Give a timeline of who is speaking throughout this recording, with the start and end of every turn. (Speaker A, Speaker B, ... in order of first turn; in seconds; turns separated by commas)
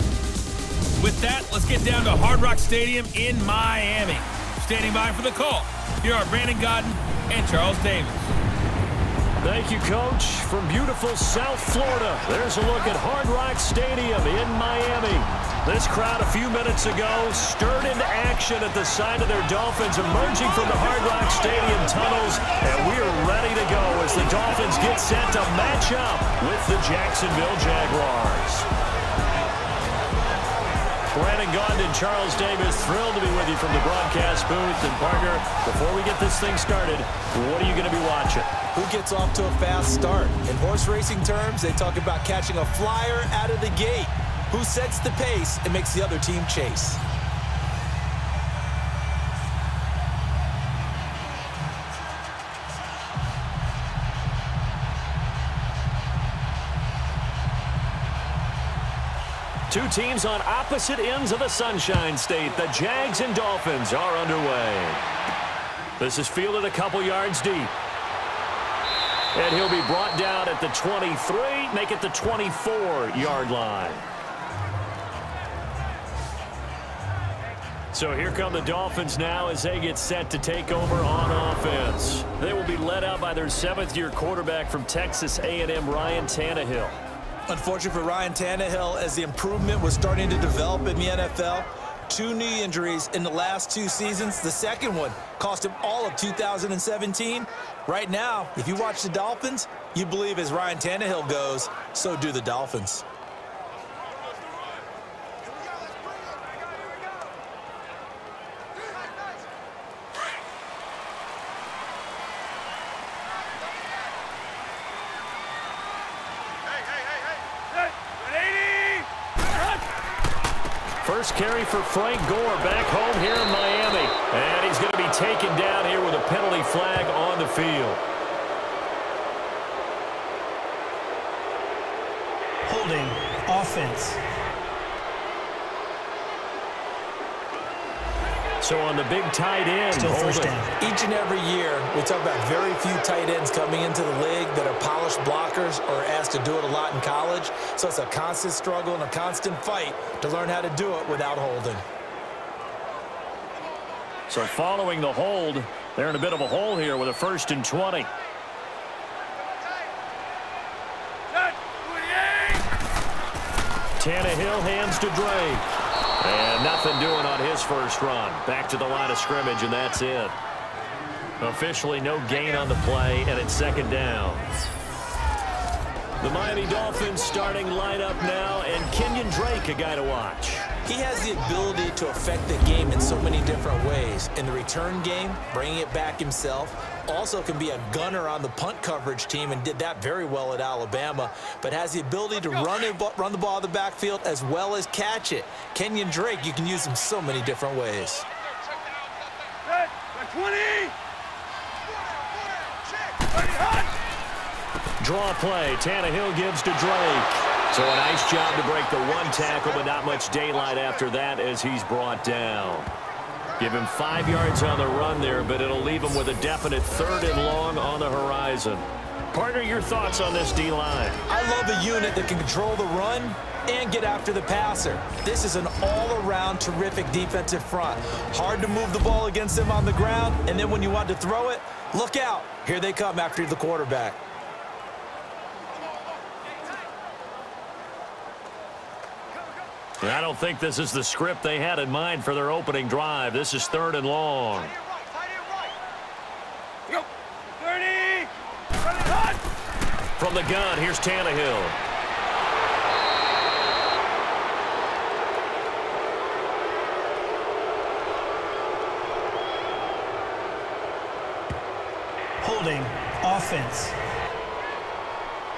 Speaker A: 1.0-8.3, Speaker B: 9.4-28.7, Speaker B: 31.1-38.5, Speaker C: 38.7-47.0, Speaker B: 59.7-65.0, Speaker B: 66.0-67.7, Speaker B: 69.3-74.0, Speaker B: 77.9-87.0, Speaker C: 87.5-103.0, Speaker B: 121.0-128.0, Speaker D: 132.7-134.2, Speaker B: 138.6-140.6, Speaker D: 139.9-140.7, Speaker C: 140.8-151.8, Speaker B: 154.3-158.1, Speaker B: 164.0-165.7, Speaker B: 166.2-170.3, Speaker B: 171.4-174.5, Speaker B: 176.2-180.7, Speaker C: 180.8-198.2, Speaker B: 205.0-212.9, Speaker B: 213.6-221.2, Speaker C: 221.3-234.2, Speaker B: 240.0-244.8, Speaker B: 250.2-251.8, Speaker D: 262.4-264.0